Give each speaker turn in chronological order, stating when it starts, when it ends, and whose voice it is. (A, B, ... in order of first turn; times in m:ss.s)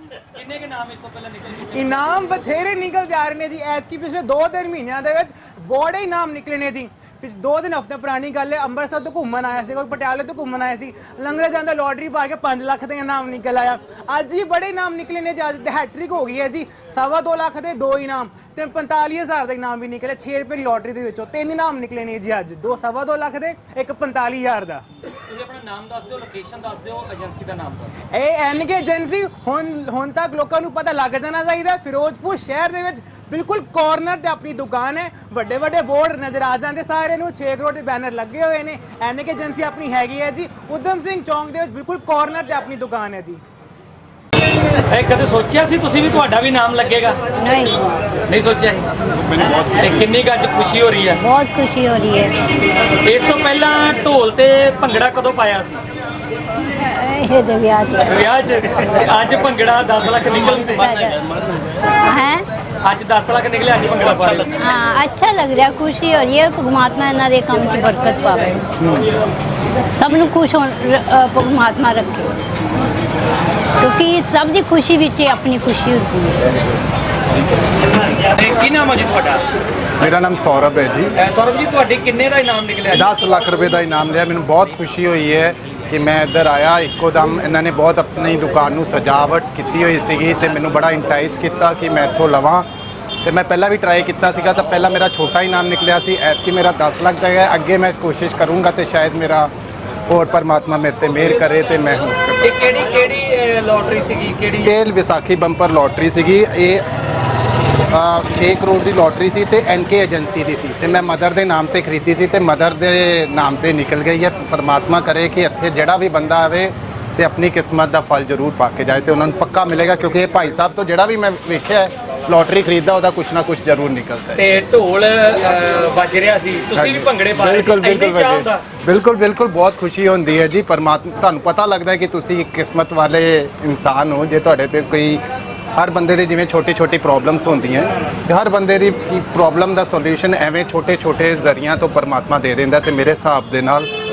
0:00.4-0:02.2 A
0:01.7-0:24.8 B
0:25.3-0:27.9 A
0:28.1-0:43.4 B
0:44.9-0:47.2 A
0:47.4-0:47.9 C
0:48.3-0:48.9 A
0:49.5-0:51.2 A
0:51.2-0:52.4 C
0:53.0-0:55.8 A
0:56.8-0:58.1 C
0:58.1-1:00.9 A
1:00.5-1:01.2 C
1:02.1-1:02.4 C
1:02.8-1:04.5 A
1:04.6-1:08.6 C
1:10.0-1:12.3 C
1:13.8-1:16.4 C
1:18.1-1:19.4 A
1:20.0-1:21.2 D
1:21.2-1:23.1 A
1:22.9-1:32.7 D
1:33.2-1:39.5 D
1:40.1-1:42.5 D
1:42.4-1:44.7 A
1:44.6-1:46.8 D
1:47.9-2:04.4 D
2:04.4-2:08.6 A
2:06.7-2:15.2 D
2:15.8-2:23.9 D